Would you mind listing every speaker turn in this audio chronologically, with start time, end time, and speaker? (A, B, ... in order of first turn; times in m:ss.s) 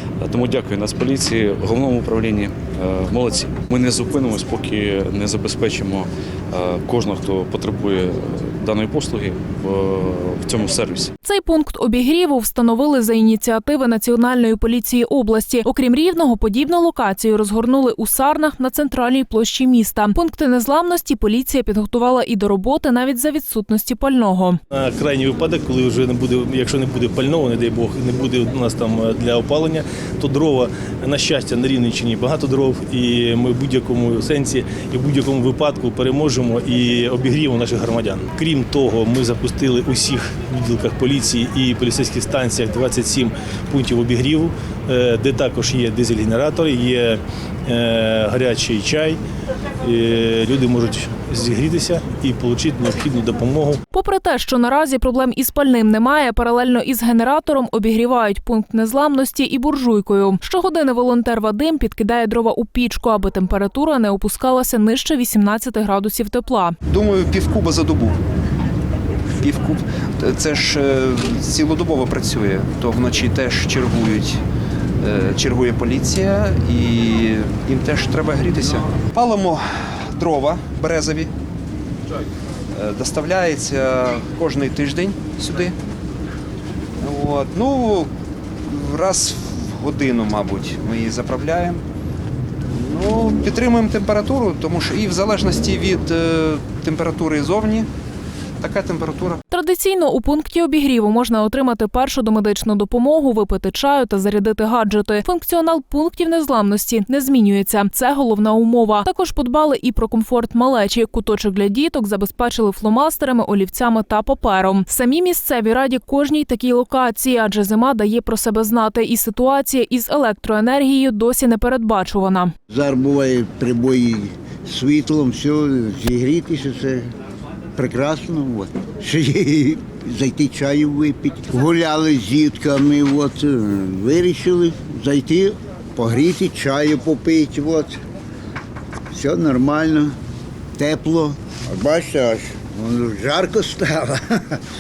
0:00.2-0:11.1 A
0:11.2-0:24.6 B
0:24.7-0:49.2 C
0:49.8-0:53.8 C
0:53.9-1:06.8 B
1:06.9-1:08.2 D
1:09.4-1:14.4 D
1:15.0-1:21.3 D
1:22.7-1:25.8 D
1:27.0-1:28.1 D
1:28.7-1:31.8 D
1:32.7-1:37.9 D
1:38.6-1:39.4 D
1:39.5-2:02.5 B
2:02.7-2:07.1 E
2:07.8-2:18.0 E
2:19.1-2:20.2 E
2:20.8-2:24.6 E